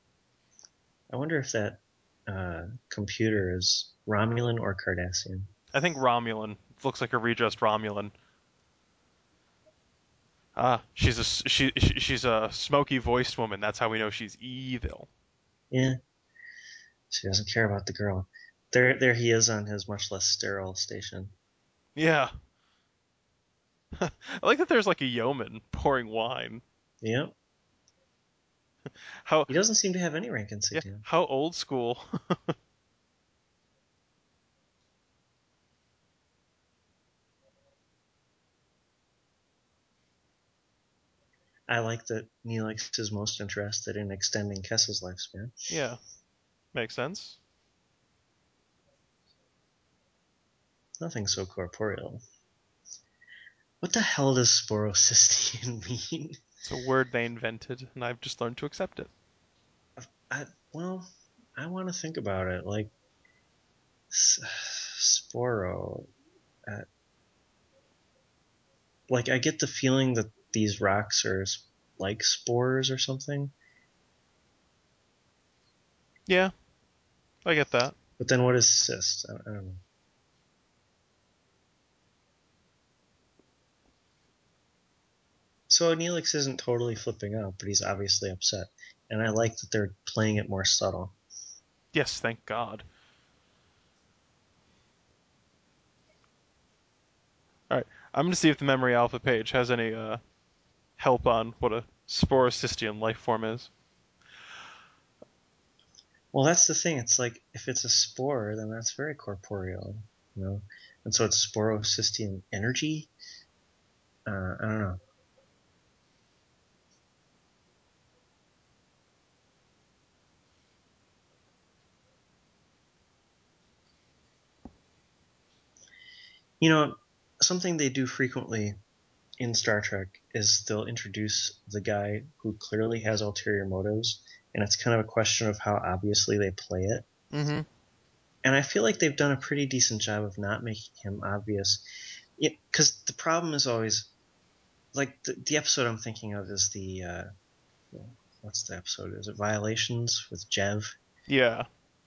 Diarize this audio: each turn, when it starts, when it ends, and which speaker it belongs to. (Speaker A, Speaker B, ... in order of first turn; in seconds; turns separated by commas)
Speaker A: 1.1-5.5, Speaker B: 5.7-8.1, Speaker B: 10.6-15.1, Speaker A: 15.7-16.0, Speaker A: 17.1-21.3, Speaker B: 21.9-22.3, Speaker B: 23.9-26.6, Speaker A: 27.0-27.3, Speaker B: 29.2-29.5, Speaker A: 29.5-31.0, Speaker B: 30.7-32.5, Speaker A: 41.7-45.5, Speaker B: 45.7-46.0, Speaker B: 46.7-47.4, Speaker A: 51.0-52.2, Speaker A: 53.8-56.4, Speaker B: 56.6-59.1, Speaker A: 60.0-62.9, Speaker A: 64.1-66.1, Speaker A: 69.1-73.5, Speaker B: 76.3-76.5, Speaker B: 77.4-78.0, Speaker A: 78.2-79.8, Speaker A: 85.7-91.1, Speaker B: 91.9-92.8, Speaker B: 97.7-100.2, Speaker B: 101.0-103.7, Speaker A: 106.3-113.1, Speaker A: 114.2-115.0, Speaker A: 126.6-128.8, Speaker A: 129.4-137.1, Speaker B: 137.3-137.7, Speaker A: 138.4-141.8, Speaker A: 142.4-144.1, Speaker A: 144.9-147.3, Speaker A: 147.9-150.9, Speaker B: 151.3-151.7